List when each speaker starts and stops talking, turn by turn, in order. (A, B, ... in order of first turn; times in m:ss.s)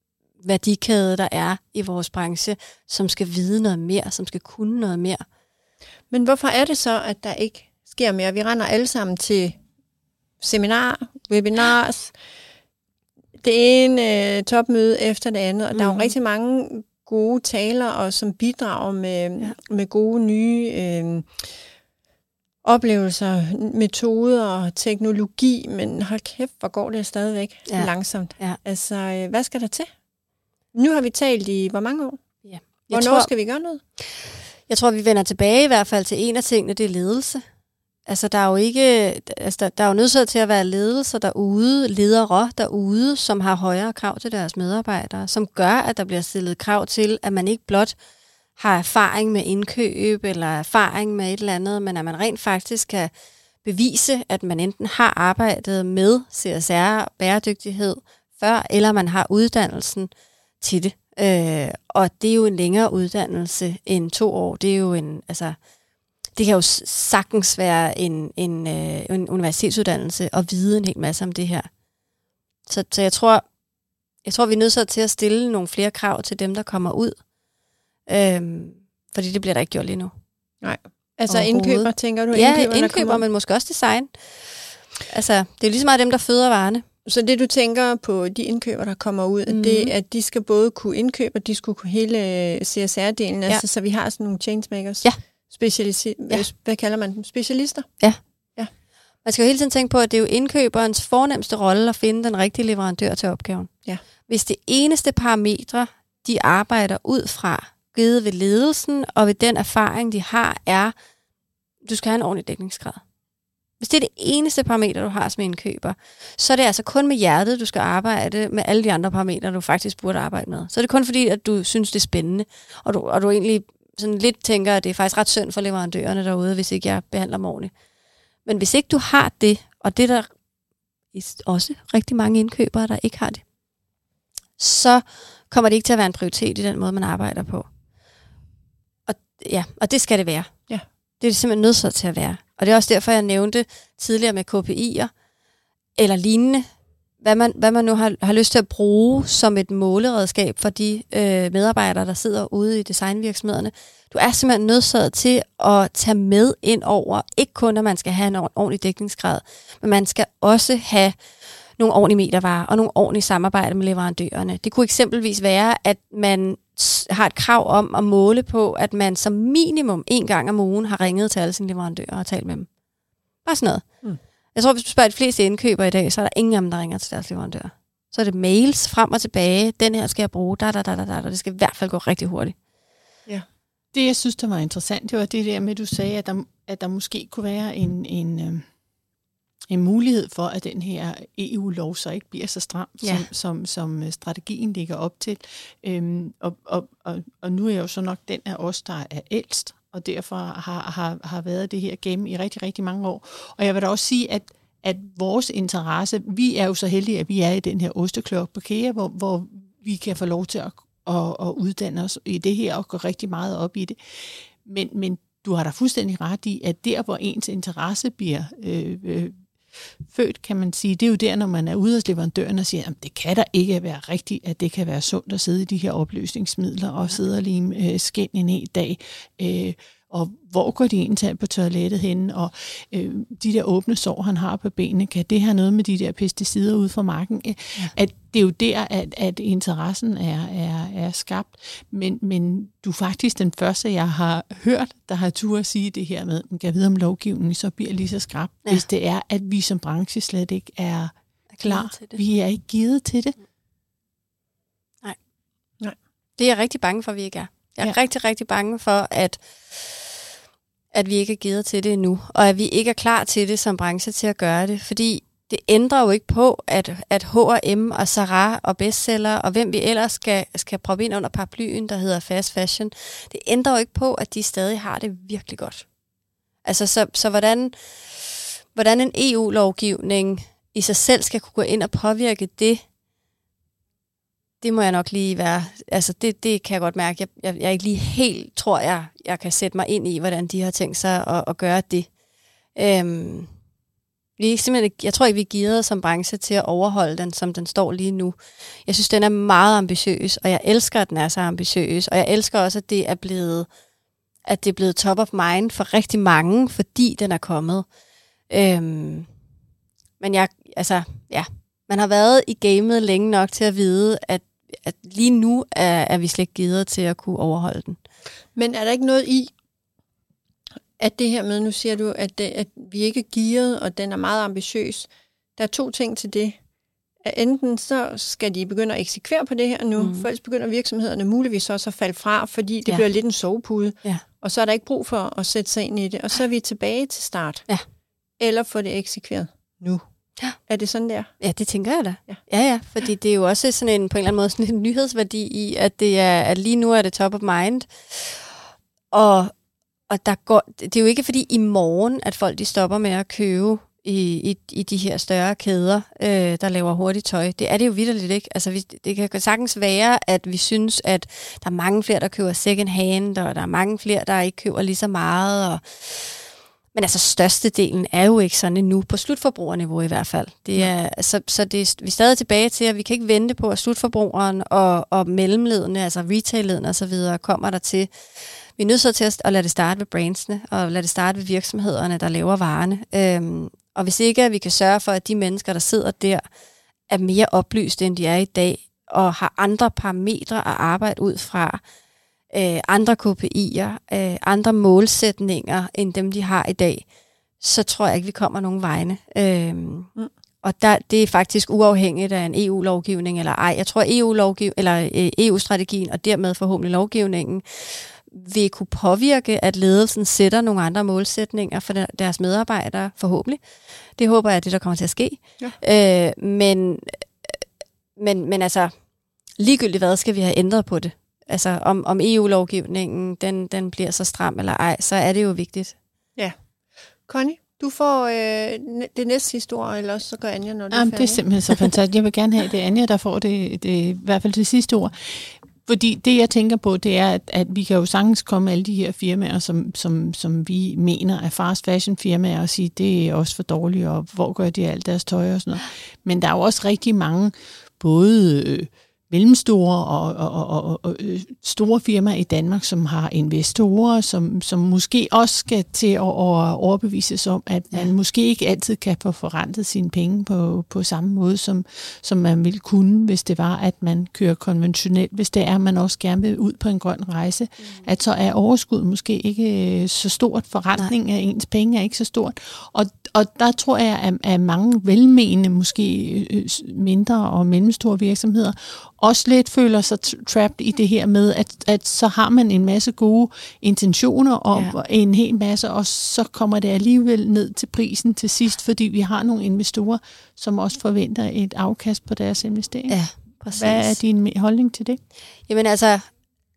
0:00.4-0:05.2 A
0:06.1-0:09.6 B
0:10.4-0:12.1 B
0:13.4-0:21.4 B
0:15.7-0:16.1 A
0:22.6-0:29.9 B
0:27.7-0:28.6 A
0:30.7-0:32.2 B
0:32.4-0:33.3 A
0:32.9-0:33.8 B
0:34.0-0:37.4 A
0:38.0-0:47.9 A
0:48.6-0:53.1 A
0:53.6-1:05.6 A
1:06.3-1:11.7 A
1:12.7-1:13.4 A
1:14.2-1:17.2 A
1:18.1-1:20.1 A
1:20.6-1:23.2 B
1:21.3-1:26.8 A
1:27.0-1:38.0 B
1:29.5-1:29.9 A
1:39.2-1:43.7 A
1:44.3-1:50.9 A
1:51.8-1:53.0 A
1:53.8-2:07.7 A
2:08.4-2:10.3 A
2:11.1-2:13.4 A
2:14.6-2:17.7 A
2:19.1-2:20.5 A
2:21.2-2:25.1 A
2:26.0-2:26.7 A
2:27.2-2:41.2 A
2:41.8-2:52.7 A
2:53.4-2:54.0 A
2:54.5-3:02.6 A
3:03.9-3:08.6 C
3:09.7-4:13.4 C
3:13.0-3:13.2 A
4:11.5-4:12.2 A
4:16.4-4:20.2 A
4:20.9-4:35.8 A
4:36.6-4:42.8 A
4:44.6-4:52.1 A
4:52.7-4:53.5 A
4:54.4-5:03.7 A
5:04.4-5:07.8 A
5:08.5-5:09.3 A
5:10.2-5:18.0 A
5:18.5-5:19.5 B
5:21.0-5:26.6 B
5:27.2-5:37.7 B
5:30.0-5:30.3 A
5:38.4-5:40.0 B
5:40.6-5:41.3 B
5:41.4-5:48.5 A
5:49.1-5:49.5 A
5:50.1-6:06.4 A
6:06.9-6:18.1 A
6:18.8-6:26.4 A
6:27.1-6:31.8 A
6:32.5-6:37.0 A
6:37.6-6:40.1 A
6:40.6-6:53.6 A
6:54.2-6:57.6 A
6:58.2-6:58.9 A
6:59.6-7:06.0 A
7:07.3-7:11.4 B
7:10.9-8:13.2 C
8:13.1-8:14.2 A
8:13.7-8:15.2 C
8:15.7-8:16.2 A